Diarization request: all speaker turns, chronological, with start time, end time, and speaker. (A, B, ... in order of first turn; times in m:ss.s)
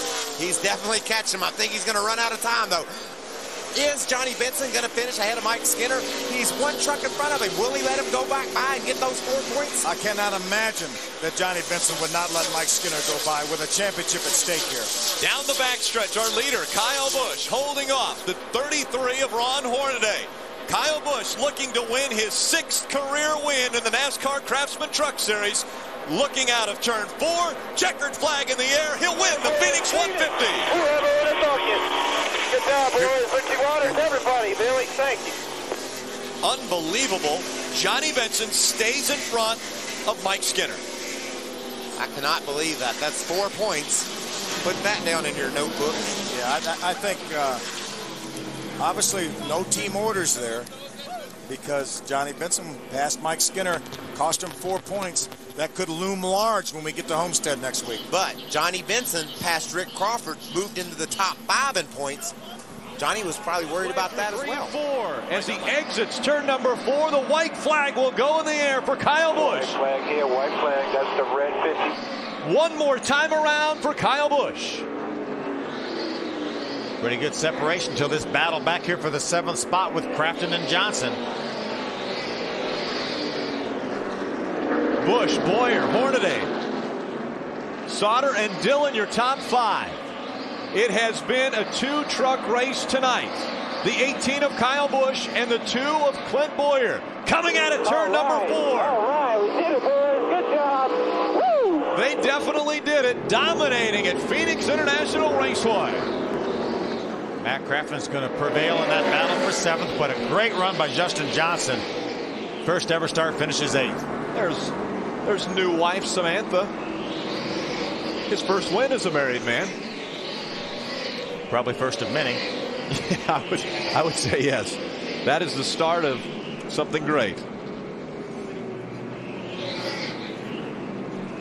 0:00.4-0:02.9 A
0:03.8-0:09.9 A
0:09.8-0:14.9 B
0:15.2-0:30.8 C
0:29.2-0:31.9 D
0:32.5-0:35.4 D
0:36.4-0:40.8 C
0:42.0-0:44.1 A
0:44.6-0:46.2 A
0:46.3-0:47.6 B
0:48.8-0:50.7 B
0:51.5-0:58.0 B
0:58.1-1:02.3 A
1:03.0-1:04.8 A
1:03.8-1:09.8 C
1:09.3-1:12.0 D
1:12.4-1:14.9 C
1:17.1-1:17.8 E
1:18.5-1:19.0 E
1:25.0-1:26.5 C
1:27.9-1:30.0 C
1:30.7-1:39.0 C
1:37.8-1:41.9 D
1:41.9-1:46.1 C
1:47.4-1:51.8 E
1:54.3-1:56.7 C
1:58.3-1:59.7 C
2:02.9-2:07.4 C